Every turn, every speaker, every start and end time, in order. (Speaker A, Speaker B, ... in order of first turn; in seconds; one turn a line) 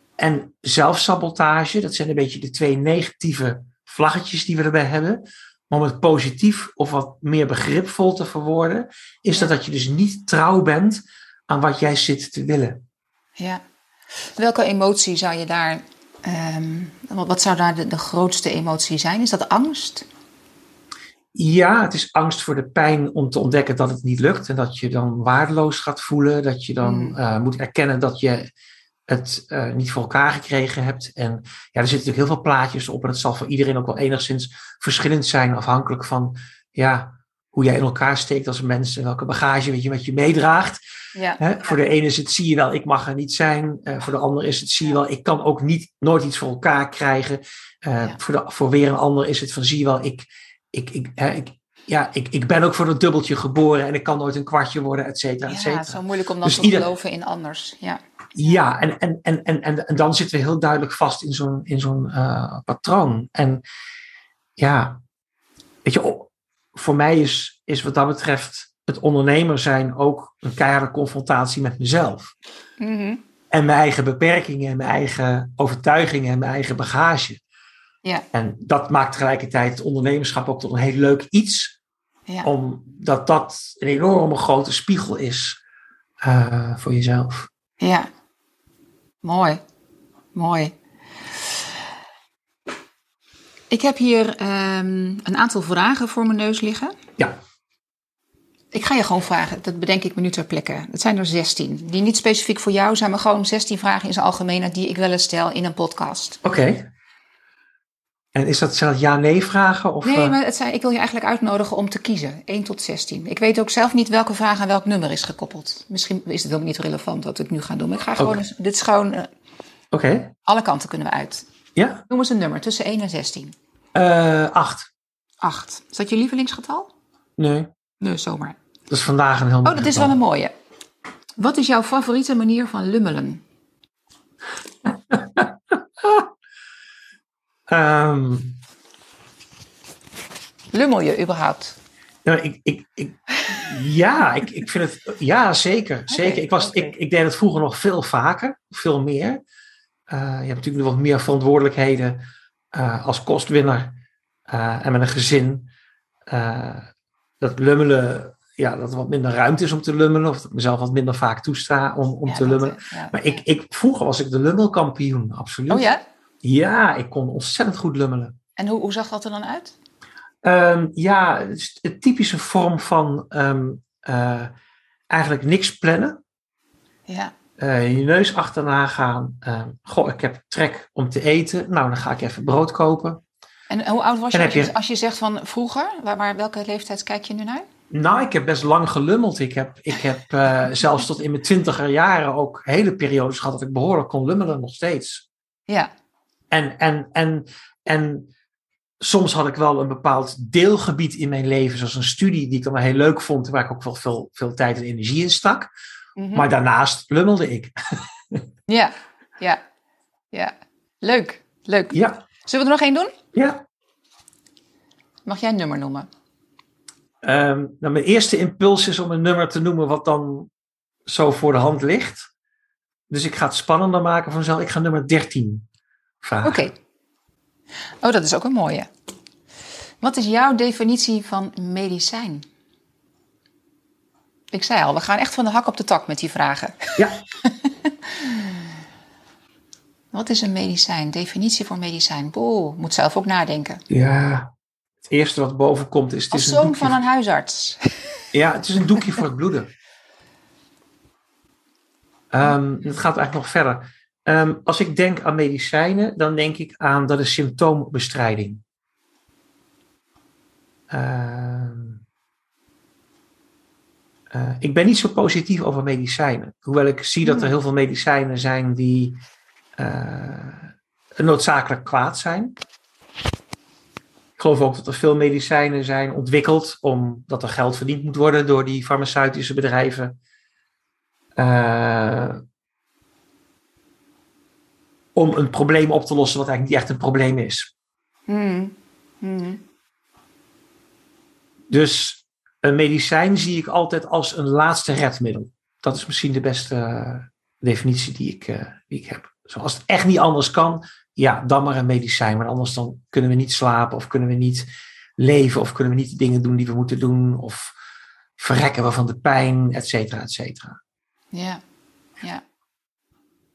Speaker A: 0.2-12.8
Speaker B: 13.4-13.6
Speaker B: 14.2-20.1
Speaker A: 21.3-28.5
Speaker B: 26.8-27.1
Speaker A: 29.1-40.8
Speaker B: 41.1-41.8
Speaker A: 41.4-56.9
Speaker B: 55.5-58.6
Speaker A: 58.3-63.6
Speaker A: 64.6-65.0
Speaker A: 65.8-72.3
Speaker B: 72.8-73.2
Speaker A: 73.5-77.4
Speaker A: 78.3-81.8
Speaker A: 82.4-85.6
Speaker A: 86.2-87.5
Speaker B: 87.8-88.1
Speaker B: 89.2-89.6
Speaker B: 90.3-90.7
Speaker B: 93.7-96.9
Speaker B: 98.7-106.4
Speaker A: 106.4-106.8
Speaker A: 108.3-110.4
Speaker B: 110.0-119.3
Speaker A: 118.2-118.4
Speaker A: 119.9-120.3
Speaker B: 120.4-121.5
Speaker A: 121.8-122.0
Speaker B: 122.1-123.5
Speaker A: 123.9-124.9
Speaker B: 125.4-126.9
Speaker A: 127.4-127.7
Speaker B: 128.0-128.6
Speaker A: 128.9-130.2
Speaker B: 129.6-130.5
Speaker B: 131.4-133.4
Speaker A: 134.8-135.5
Speaker A: 137.7-138.6
Speaker B: 140.7-141.8
Speaker A: 142.2-149.4
Speaker B: 146.1-146.9
Speaker A: 150.1-153.9
Speaker A: 154.5-155.7
Speaker A: 156.3-156.9
Speaker A: 157.4-165.9
Speaker B: 162.2-163.4
Speaker B: 165.7-166.0
Speaker A: 166.4-168.3
Speaker B: 168.6-169.7
Speaker A: 170.4-174.5
Speaker A: 175.1-176.2
Speaker B: 177.1-177.3
Speaker A: 177.6-183.2
Speaker B: 183.7-187.7
Speaker A: 184.3-184.7
Speaker A: 187.9-195.2
Speaker A: 196.5-198.3
Speaker A: 199.0-205.7
Speaker B: 206.2-206.4
Speaker A: 206.3-207.7
Speaker B: 208.7-209.6
Speaker B: 210.3-213.1
Speaker A: 211.9-212.2
Speaker A: 213.3-213.6
Speaker B: 215.2-216.1
Speaker A: 217.2-220.5
Speaker A: 221.1-222.3
Speaker A: 223.1-225.6
Speaker A: 226.2-226.7
Speaker B: 226.4-226.7
Speaker B: 228.0-228.9
Speaker B: 230.0-232.4
Speaker B: 234.5-238.7
Speaker A: 237.0-237.2
Speaker B: 240.1-243.8
Speaker A: 243.9-244.5
Speaker A: 245.1-247.0
Speaker B: 246.3-248.2
Speaker A: 248.3-249.7
Speaker A: 252.3-258.6
Speaker A: 260.9-262.0
Speaker A: 264.3-269.2
Speaker B: 267.2-267.5
Speaker A: 269.8-272.5
Speaker A: 274.4-280.2
Speaker A: 281.4-282.4
Speaker A: 285.1-287.7
Speaker B: 288.3-289.6
Speaker A: 291.7-304.6
Speaker A: 305.2-307.7
Speaker A: 308.4-310.8
Speaker B: 311.3-311.6